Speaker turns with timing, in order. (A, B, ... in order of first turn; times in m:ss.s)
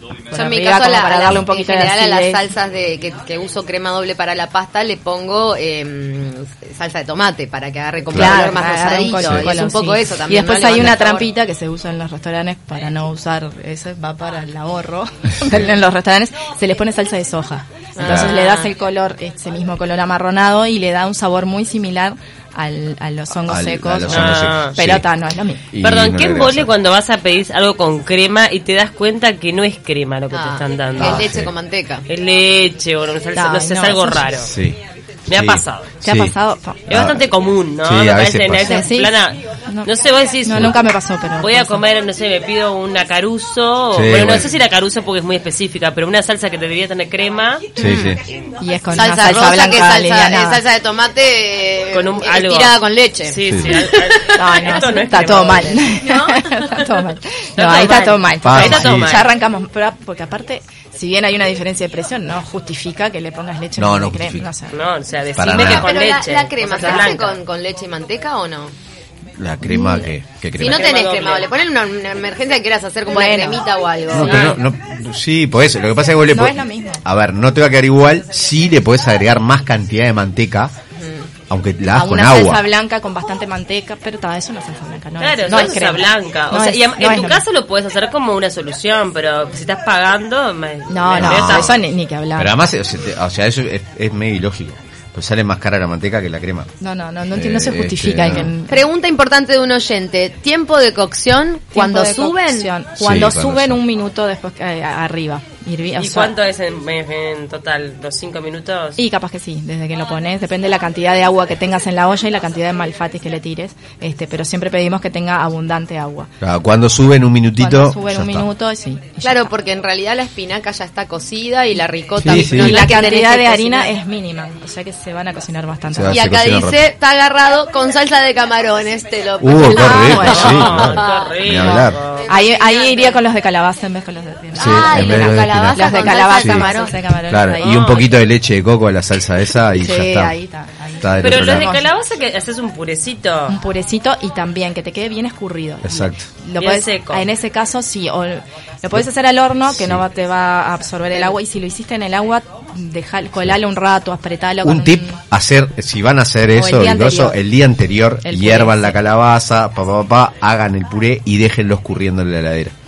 0:00.3-0:02.4 A
0:00.3-0:11.3 B
0:08.1-0:08.5 C
0:08.1-0:25.6 A
0:09.2-0:09.5 C
0:18.0-0:18.7 B
0:18.0-0:18.3 C
0:23.5-0:25.0 C
0:24.1-0:24.8 D
0:25.7-0:26.7 C
0:25.8-0:31.3 D
0:30.3-0:32.1 B
0:31.0-0:31.5 C
0:32.1-0:34.5 D
0:33.4-0:34.2 A
0:34.4-0:34.8 C
0:35.3-0:35.9 D
0:35.3-0:36.3 C
0:36.0-0:36.9 A
0:36.9-0:37.2 C
0:36.9-0:40.8 D
0:37.8-0:38.8 C
0:38.6-0:39.9 A
0:40.4-0:41.8 A
0:41.4-0:47.8 D
0:43.9-0:44.5 C
0:47.8-0:48.2 C
0:47.8-0:48.2 B
0:48.6-0:50.6 A
0:48.9-0:54.6 B
0:51.9-0:55.8 D
0:53.5-0:53.8 C
0:54.4-1:04.8 A
0:55.9-0:56.8 B
0:57.6-0:59.3 D
0:58.4-0:59.2 C
1:03.8-1:04.5 C
1:04.7-1:07.4 D
1:05.4-1:06.0 C
1:05.5-1:08.7 B
1:09.4-1:10.8 C
1:09.6-1:10.0 A
1:10.6-1:14.6 B
1:10.6-1:11.5 D
1:13.1-1:13.6 A
1:14.1-1:20.7 C
1:14.2-1:14.6 D
1:16.3-1:17.0 A
1:21.0-1:21.3 B
1:21.5-1:22.6 C
1:21.9-1:27.4 A
1:25.2-1:31.8 D
1:30.9-1:32.5 A
1:31.2-1:31.7 C
1:32.4-1:36.7 C
1:36.8-1:38.8 A
1:37.3-1:38.5 C
1:38.7-1:42.7 B
1:41.7-1:46.3 A
1:43.0-1:43.8 C
1:46.0-1:49.0 D
1:49.0-1:56.3 A
1:56.4-1:58.5 C
1:57.6-1:59.5 A
1:59.2-2:03.9 B
2:02.2-2:02.9 C
2:02.2-2:06.2 A
2:05.9-2:06.8 C
2:06.1-2:13.2 B
2:09.4-2:12.0 C
2:09.7-2:10.8 A
2:10.2-2:12.3 D
2:12.3-2:18.1 A
2:14.6-2:16.7 C
2:14.6-2:16.9 B
2:17.3-2:20.3 C
2:17.6-2:18.0 D
2:19.8-2:21.9 A
2:21.0-2:21.8 C
2:21.2-2:23.6 D
2:23.5-2:35.2 A
2:25.8-2:26.2 C
2:26.6-2:27.2 D
2:29.7-2:30.0 C
2:34.6-2:42.8 C
2:36.6-2:37.4 A
2:38.2-2:39.0 A